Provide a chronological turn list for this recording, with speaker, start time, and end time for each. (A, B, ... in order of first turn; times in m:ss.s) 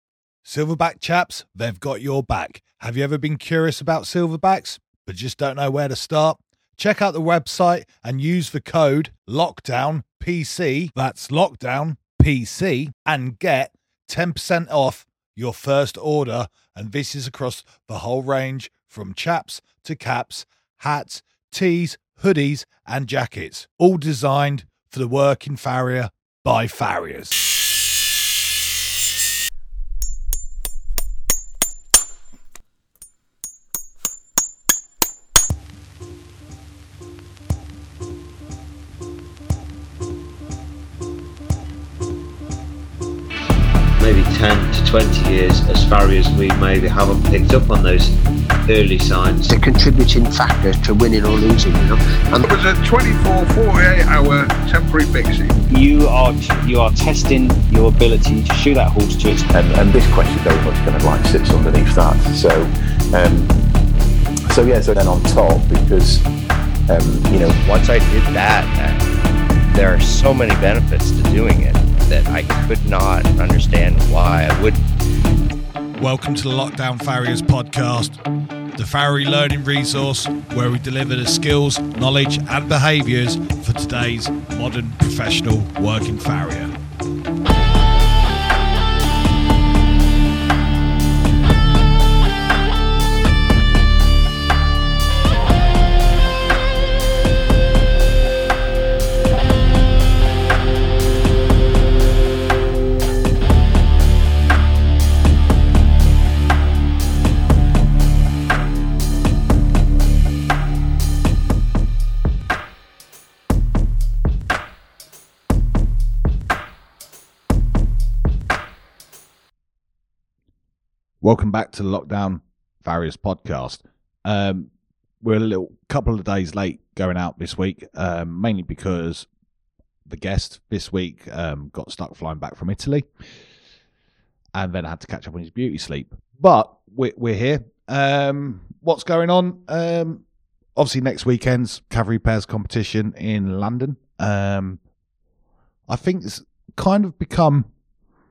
0:00.4-0:27.5 A
0:44.0-0:49.5 B
0:49.5-0:52.5 C
0:52.4-0:55.6 D
0:55.7-0:59.5 E
0:59.5-1:03.5 F
1:04.5-1:06.2 F
1:06.9-1:07.6 F
1:07.6-1:09.0 G
1:09.7-1:14.8 G
1:15.9-1:18.2 A
1:18.8-1:26.7 A
2:01.2-2:09.3 A
2:10.1-2:13.1 A
2:14.5-2:20.2 A
2:20.8-2:24.8 A
2:25.9-2:27.7 A